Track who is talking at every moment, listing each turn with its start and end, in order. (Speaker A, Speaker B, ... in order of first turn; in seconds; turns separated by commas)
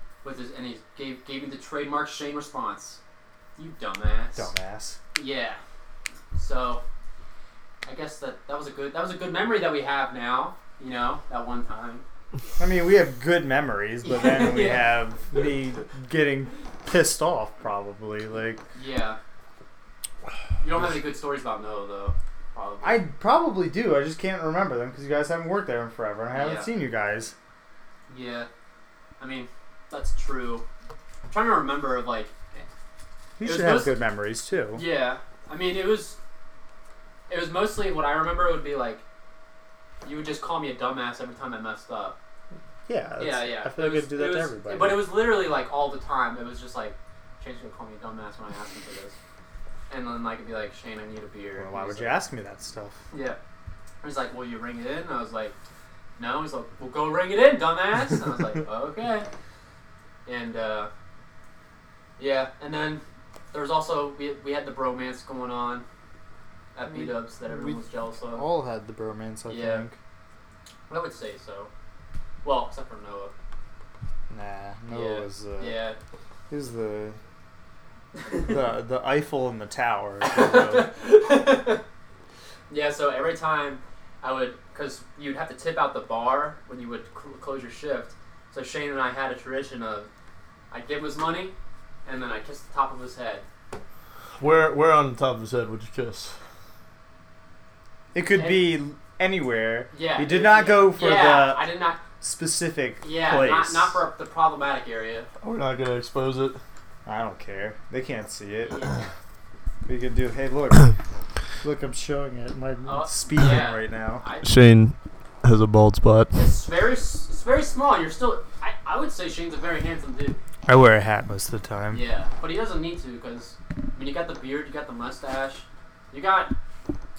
Speaker A: 0.2-3.0, Speaker A: 3.6-4.5, Speaker B: 4.3-5.0, Speaker A: 5.1-5.6, Speaker A: 6.3-6.8, Speaker A: 7.8-12.0, Speaker B: 12.6-18.6, Speaker A: 14.0-15.4, Speaker A: 18.7-19.2, Speaker A: 20.6-23.0, Speaker B: 22.8-27.3, Speaker A: 26.3-26.7, Speaker A: 28.1-28.5, Speaker A: 29.2-30.6, Speaker A: 31.3-32.6, Speaker B: 33.4-34.8, Speaker A: 33.4-34.0, Speaker A: 34.7-36.2, Speaker A: 37.3-39.0, Speaker A: 40.0-42.1, Speaker B: 42.9-45.1, Speaker A: 43.2-49.1, Speaker A: 49.9-52.1, Speaker B: 51.5-53.0, Speaker A: 53.1-53.4, Speaker A: 54.0-55.5, Speaker A: 56.2-59.3, Speaker A: 60.2-60.9, Speaker A: 62.2-65.8, Speaker A: 66.7-68.4, Speaker B: 66.9-70.0, Speaker A: 69.5-69.9, Speaker A: 70.9-71.7, Speaker A: 72.4-73.3, Speaker B: 74.3-75.8, Speaker A: 74.9-76.0, Speaker B: 76.5-77.2, Speaker A: 78.2-78.5, Speaker B: 78.4-80.9, Speaker A: 80.2-81.8, Speaker A: 82.7-90.1, Speaker A: 90.7-91.5, Speaker A: 92.0-93.4, Speaker C: 94.4-96.4, Speaker B: 98.1-104.0, Speaker A: 98.3-98.6, Speaker A: 99.9-102.0, Speaker A: 103.0-105.3, Speaker C: 105.4-106.6, Speaker B: 107.0-109.0, Speaker A: 108.7-109.0, Speaker B: 109.8-110.9, Speaker B: 111.6-114.3, Speaker A: 112.8-114.5, Speaker C: 114.4-116.4, Speaker A: 116.3-120.4, Speaker B: 120.7-122.0, Speaker A: 121.9-126.5